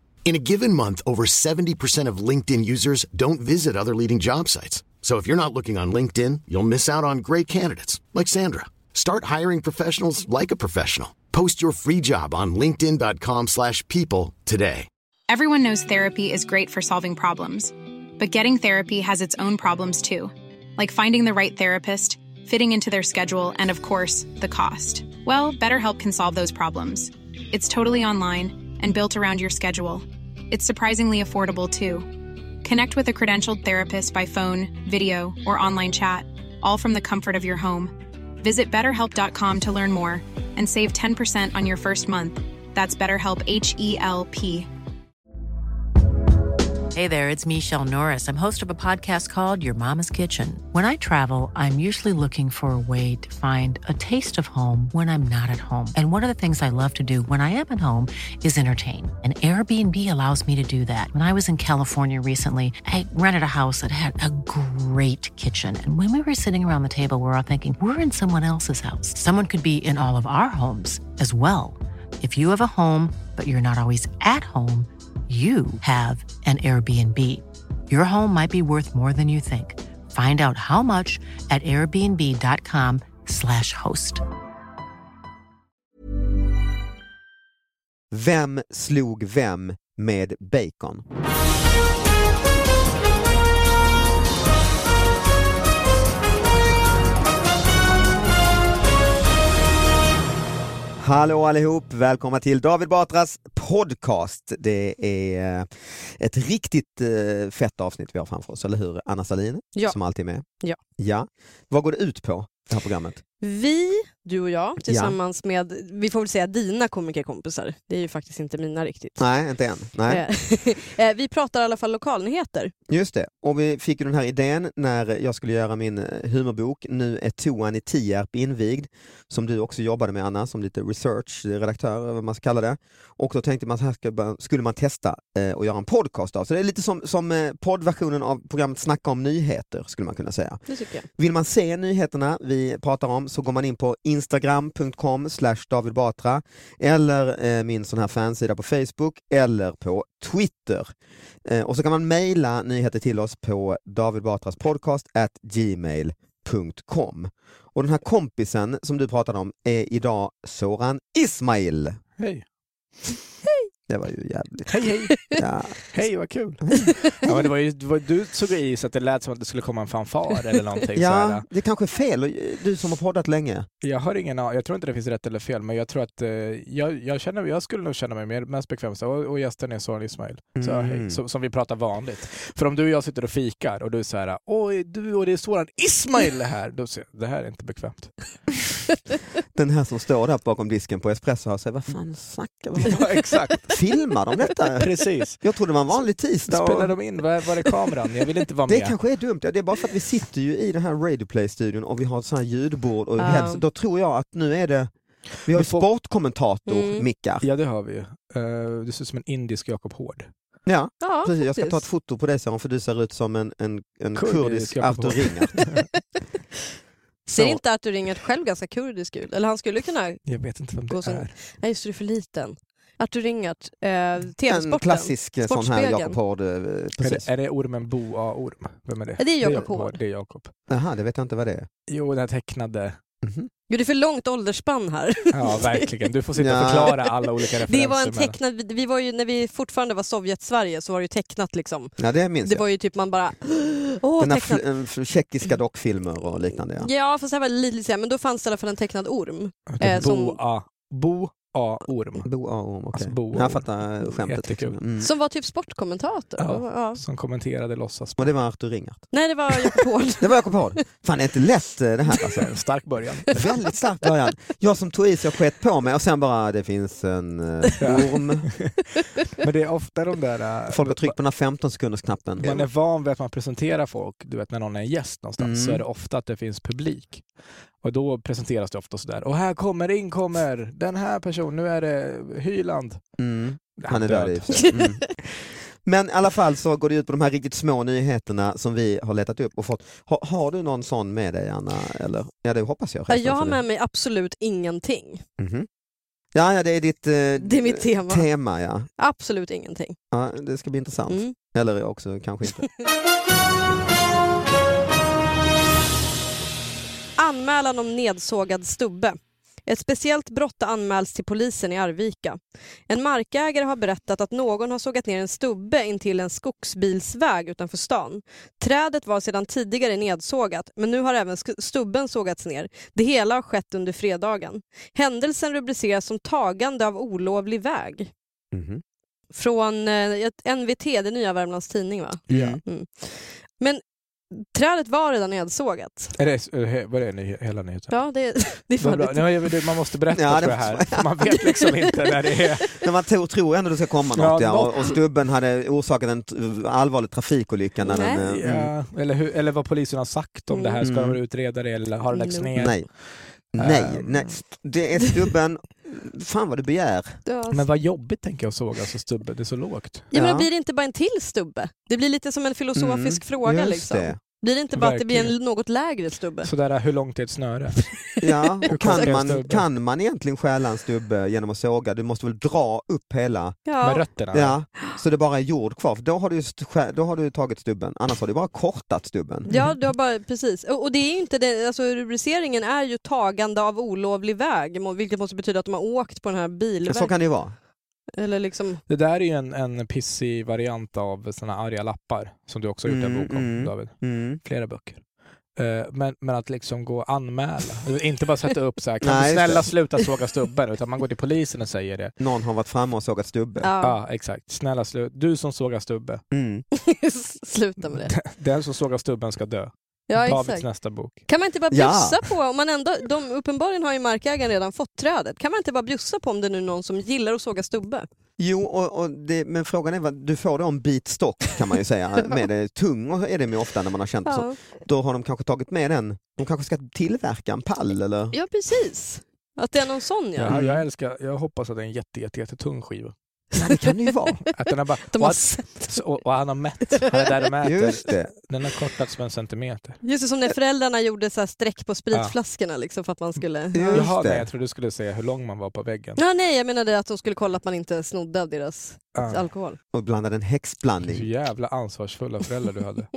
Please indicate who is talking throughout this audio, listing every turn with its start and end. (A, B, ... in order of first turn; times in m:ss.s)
0:00.3-0:14.9 A
0:15.3-0:32.1 B
0:32.6-0:44.7 B
0:47.0-1:24.2 C
1:28.1-1:31.0 D
1:41.0-1:50.4 D
1:51.0-1:53.2 D
1:53.4-1:59.2 E
1:54.8-1:55.2 D
1:59.2-2:00.2 D
2:00.1-2:02.7 E
2:02.9-2:20.6 D
2:20.7-2:21.1 E
2:21.2-2:30.9 D
2:31.4-2:42.0 D
2:42.2-2:42.4 F
2:43.9-2:45.8 D
2:44.7-2:45.4 F
2:45.9-2:51.5 F
2:46.6-2:46.9 D
2:46.8-2:47.3 E
2:51.0-2:53.7 D
2:53.8-3:08.2 F
3:00.6-3:01.2 D
3:09.5-3:13.0 D
3:12.8-3:13.7 F
3:13.7-3:16.9 D
3:14.8-3:15.4 F
3:16.5-3:19.0 F
3:18.7-3:24.9 D
3:23.2-3:23.6 E
3:25.5-3:27.4 D
3:25.5-3:25.9 F
3:26.7-3:27.0 E
3:27.4-3:30.3 F
3:30.7-3:35.7 D
3:31.0-3:31.8 E
3:34.2-3:35.9 F
3:37.3-3:40.3 E
3:40.3-3:41.3 F
3:40.9-3:46.2 E
3:44.5-3:47.3 D
3:47.0-3:50.5 F
3:49.2-3:50.0 E
3:50.7-3:51.7 D
3:51.9-3:53.0 F
3:53.2-3:53.5 D
3:53.7-3:55.9 E
3:55.3-3:58.4 F
3:56.4-3:56.9 D
3:57.6-4:04.6 E
4:02.0-4:02.6 D
4:04.2-4:06.9 D
4:06.8-4:10.4 E
4:09.7-4:12.3 F
4:12.2-4:15.1 D
4:13.0-4:14.8 F
4:15.0-4:17.0 E
4:16.4-4:18.3 F
4:18.2-4:19.1 D
4:19.1-4:20.8 E
4:20.2-4:22.5 D
4:22.4-4:23.3 F
4:23.3-4:28.5 D
4:27.8-4:31.2 F
4:30.7-4:32.6 D
4:32.4-4:37.2 F
4:35.4-4:35.8 D
4:37.8-4:43.0 F
4:43.2-4:45.2 D
4:43.8-4:44.8 F
4:45.8-4:53.6 D
4:53.1-4:55.2 E
4:55.4-4:55.7 D
4:56.3-4:58.9 D
4:57.4-4:58.3 E
4:59.0-5:00.0 E
5:00.1-5:02.7 D
5:01.1-5:01.4 E
5:07.2-5:28.1 E
5:28.5-5:28.8 D
5:29.3-5:33.8 E
5:32.3-5:32.6 F
5:32.3-5:32.6 D
5:34.3-5:36.1 E
5:36.2-5:38.0 F
5:37.9-5:39.5 E
5:38.8-5:42.7 F
5:40.1-5:41.1 D
5:42.8-5:48.7 D
5:44.2-5:44.7 F
5:47.8-5:48.3 E
5:48.3-5:54.4 F
5:50.5-5:50.8 E
5:50.8-5:51.2 D
5:52.1-5:52.5 E
5:52.6-5:52.9 D
5:53.5-5:57.2 D
5:57.3-5:57.6 E
5:57.5-6:00.1 F
6:00.1-6:06.5 E
6:00.1-6:00.5 D
6:02.8-6:04.2 D
6:04.7-6:05.3 F
6:06.4-6:07.9 F
6:08.2-6:13.6 D
6:08.3-6:09.2 E
6:08.7-6:09.6 F
6:13.7-6:14.0 E
6:13.8-6:14.6 F
6:14.3-6:19.5 D
6:19.5-6:27.1 E
6:19.5-6:19.8 F
6:26.9-6:27.5 D
6:28.2-6:28.8 E
6:28.9-6:35.0 F
6:32.9-6:34.4 D
6:35.6-6:42.1 F
6:39.0-6:39.7 D
6:42.2-6:43.7 D
6:43.6-6:44.0 E
6:43.8-6:46.2 F
6:46.3-6:46.6 D
6:46.7-6:48.2 E
6:48.1-6:51.2 F
6:50.1-6:58.1 E
6:51.7-6:52.2 D
6:58.4-7:08.4 D
7:04.3-7:04.6 E
7:08.3-7:10.6 E
7:10.4-7:13.2 F
7:10.5-7:10.8 D
7:13.6-7:14.4 D
7:14.5-7:20.0 F
7:15.1-7:15.9 E
7:17.6-7:18.3 D
7:20.0-7:24.1 E
7:23.7-7:24.5 D
7:23.9-7:26.2 F
7:26.2-7:29.8 E
7:29.2-7:29.4 F
7:29.9-7:31.3 D
7:31.1-7:33.1 F